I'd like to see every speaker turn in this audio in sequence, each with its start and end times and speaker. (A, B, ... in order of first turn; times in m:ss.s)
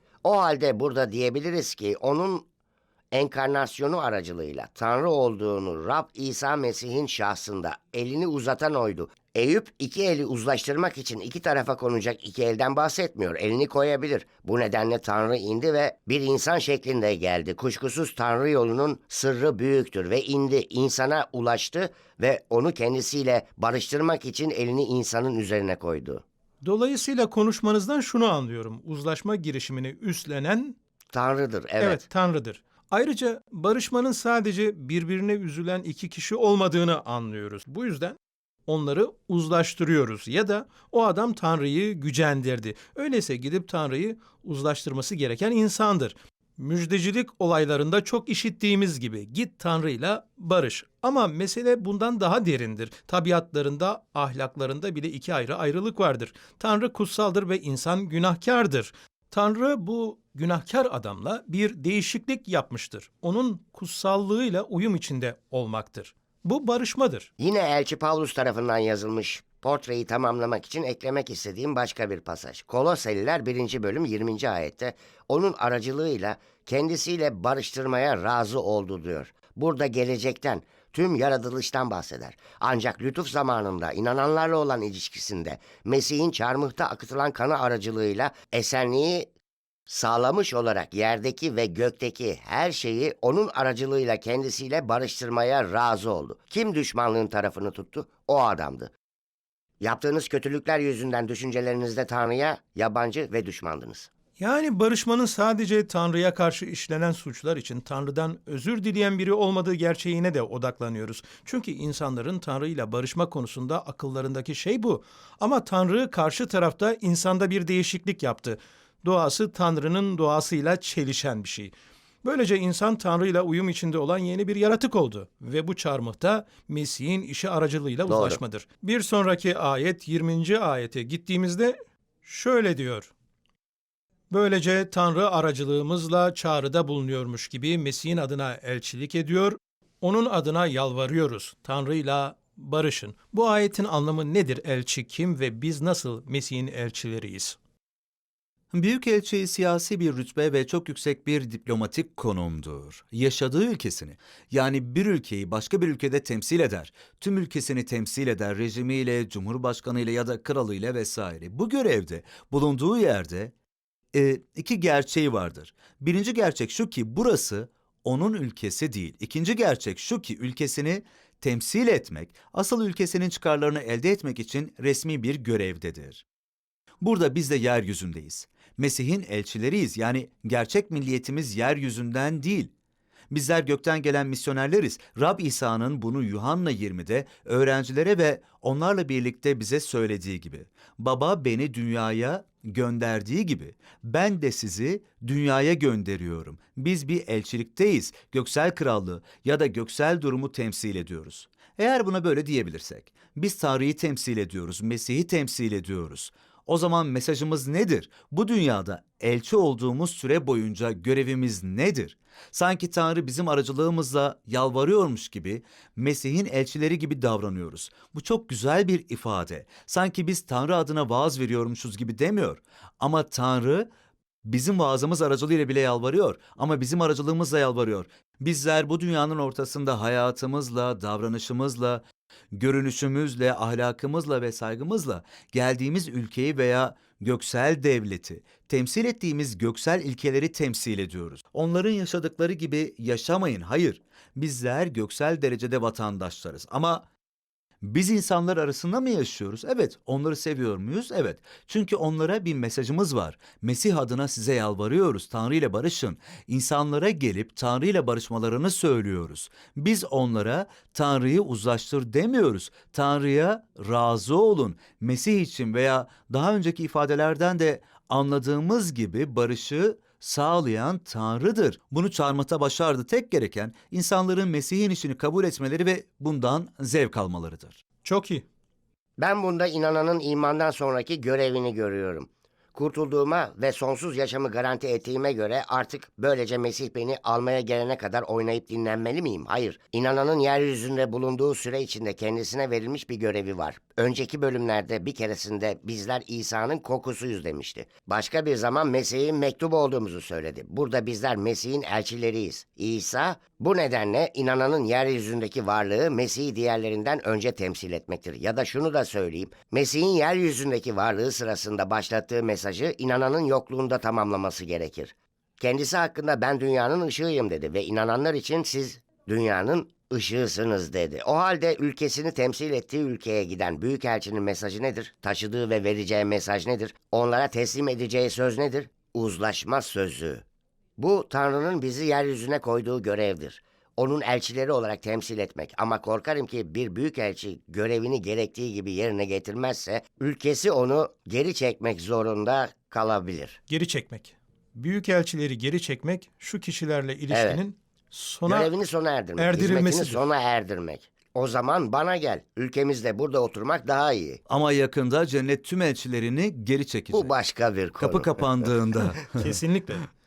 0:00.2-0:02.4 A
0:03.1-0:26.2 A
0:26.6-0:30.8 B
0:31.1-0:32.0 A
0:31.8-1:07.3 B
1:07.4-1:29.3 A
1:29.9-1:38.9 A
1:39.8-1:44.1 A
1:44.4-2:13.1 B
2:08.1-2:08.4 A
2:14.3-2:27.6 B
2:28.7-2:43.5 C
2:44.1-2:56.2 C
2:57.0-3:02.7 C
3:03.3-3:43.9 C
3:44.4-4:07.0 C
4:07.8-4:37.8 C
4:38.0-4:38.4 B
4:39.2-5:30.4 A
5:31.0-5:43.6 A
5:43.7-5:48.7 B
5:47.3-5:47.6 A
5:48.4-5:54.4 A
5:49.4-5:50.2 B
5:54.5-5:57.3 C
5:57.1-5:58.7 A
5:58.0-5:59.6 C
5:59.4-6:00.1 B